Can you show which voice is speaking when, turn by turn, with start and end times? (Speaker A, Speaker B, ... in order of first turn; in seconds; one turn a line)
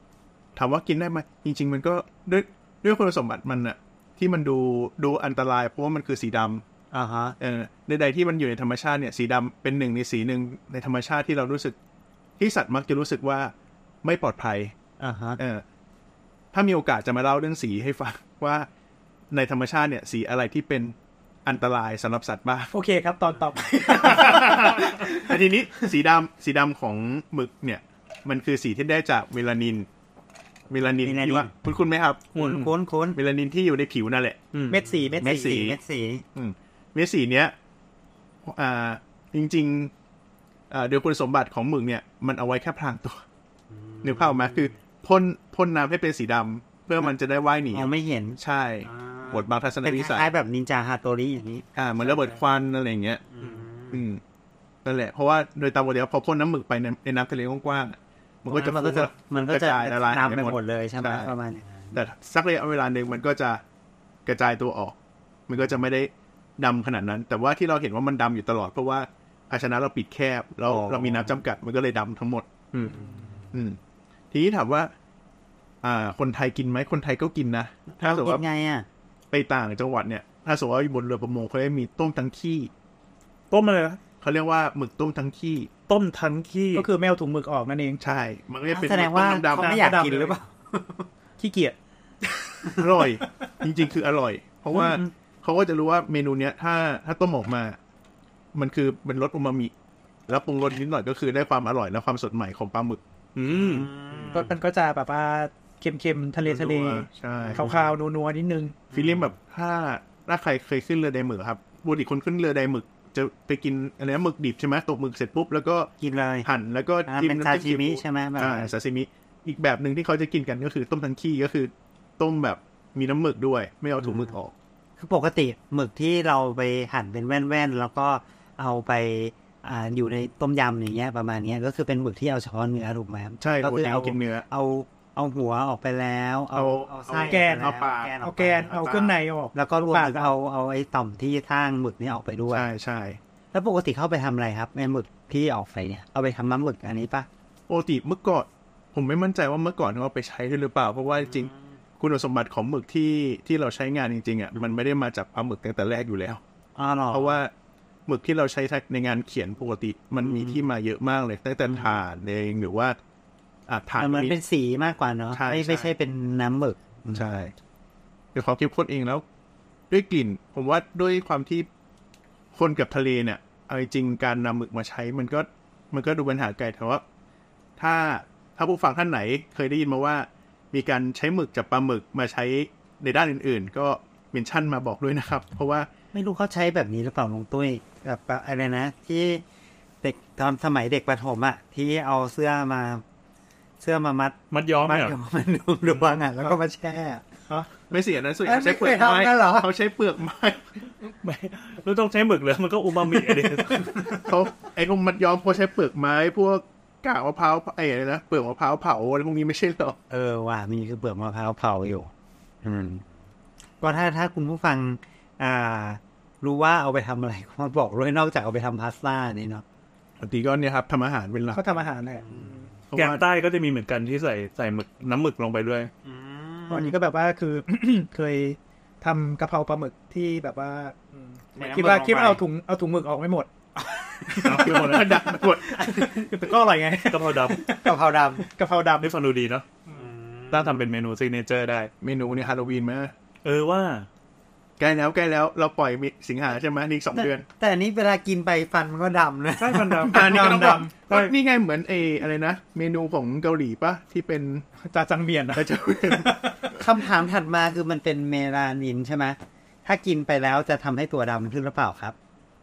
Speaker A: 0.6-6.6
Speaker B: 6.9-7.4
Speaker A: 7.4-11.8
Speaker A: 12.4-14.8
Speaker B: 15.0-15.4
Speaker A: 15.4-15.6
Speaker A: 16.5-18.7
Speaker A: 19.3-22.7
Speaker C: 22.7-25.8
Speaker A: 24.0-29.9
Speaker A: 30.7-34.4
Speaker B: 31.0-31.5
Speaker B: 32.4-33.2
Speaker D: 34.5-34.8
Speaker C: 34.7-35.4
Speaker B: 35.1-36.2
Speaker A: 35.2-35.8
Speaker A: 36.4-37.5
Speaker A: 38.5-39.9
Speaker A: 40.7-43.2
Speaker B: 43.8-44.5
Speaker A: 44.0-50.3
Speaker B: 47.7-52.4
Speaker A: 51.8-54.2
Speaker B: 53.3-54.0
Speaker A: 54.8-61.3
Speaker B: 58.5-62.0
Speaker A: 61.9-63.6
Speaker A: 64.3-65.0
Speaker A: 65.5-72.5
Speaker D: 70.7-71.3
Speaker D: 72.7-73.2
Speaker A: 73.5-73.8
Speaker A: 74.3-74.9
Speaker A: 75.8-78.4
Speaker B: 77.9-78.9
Speaker A: 79.3-82.7
Speaker D: 83.5-84.0
Speaker A: 84.2-85.7
Speaker D: 85.9-86.9
Speaker C: 86.7-88.0
Speaker A: 88.0-89.8
Speaker B: 88.7-91.1
Speaker C: 89.5-90.4
Speaker C: 91.4-91.8
Speaker A: 92.7-97.8
Speaker B: 94.8-95.1
Speaker A: 98.5-99.7
Speaker A: 100.3-103.0
Speaker D: 103.3-103.9
Speaker B: 103.5-104.5
Speaker A: 104.1-104.4
Speaker C: 104.3-108.8
Speaker A: 106.5-107.7
Speaker B: 107.5-107.8
Speaker B: 108.9-109.3
Speaker A: 108.9-115.9
Speaker B: 116.0-116.5
Speaker A: 116.4-124.5
Speaker B: 117.1-118.7
Speaker B: 124.0-124.3
Speaker B: 125.0-138.8
Speaker A: 133.4-134.5
Speaker A: 136.5-139.1
Speaker C: 137.2-140.3
Speaker B: 139.5-142.7
Speaker A: 142.5-143.2
Speaker B: 143.5-147.3
Speaker A: 147.7-156.4
Speaker B: 156.8-157.4
Speaker A: 157.1-157.5
Speaker A: 158.1-163.0
Speaker B: 160.2-160.6
Speaker A: 163.7-164.4
Speaker B: 164.0-167.2
Speaker A: 165.3-165.9
Speaker A: 167.1-167.6
Speaker A: 168.3-169.2
Speaker A: 169.9-171.7
Speaker A: 172.5-177.0
Speaker A: 177.8-185.9
Speaker B: 186.1-189.4
Speaker B: 190.0-193.0
Speaker B: 193.8-197.4
Speaker D: 194.5-195.2
Speaker A: 197.9-200.9
Speaker B: 198.4-199.7
Speaker D: 201.0-204.2
Speaker A: 204.0-210.0
Speaker B: 210.1-212.1
Speaker B: 212.6-213.1
Speaker B: 213.8-219.6
Speaker A: 220.2-221.6
Speaker C: 221.5-222.3
Speaker B: 222.3-222.7
Speaker A: 222.9-223.2
Speaker D: 222.9-225.9
Speaker B: 226.1-226.9
Speaker C: 226.7-233.5
Speaker B: 231.6-232.4
Speaker B: 233.8-235.0
Speaker C: 234.3-239.1
Speaker A: 234.4-235.8
Speaker B: 235.8-236.1
Speaker D: 237.1-237.6
Speaker B: 237.8-238.4
Speaker D: 239.0-239.7
Speaker B: 239.9-240.8
Speaker D: 240.5-241.9
Speaker A: 242.0-243.1
Speaker D: 243.4-244.1
Speaker A: 244.8-247.5
Speaker B: 247.1-250.3
Speaker D: 249.6-250.4
Speaker A: 250.1-254.7
Speaker C: 250.2-250.9
Speaker D: 251.0-251.3
Speaker C: 254.8-256.6
Speaker A: 255.5-256.3
Speaker B: 256.7-262.2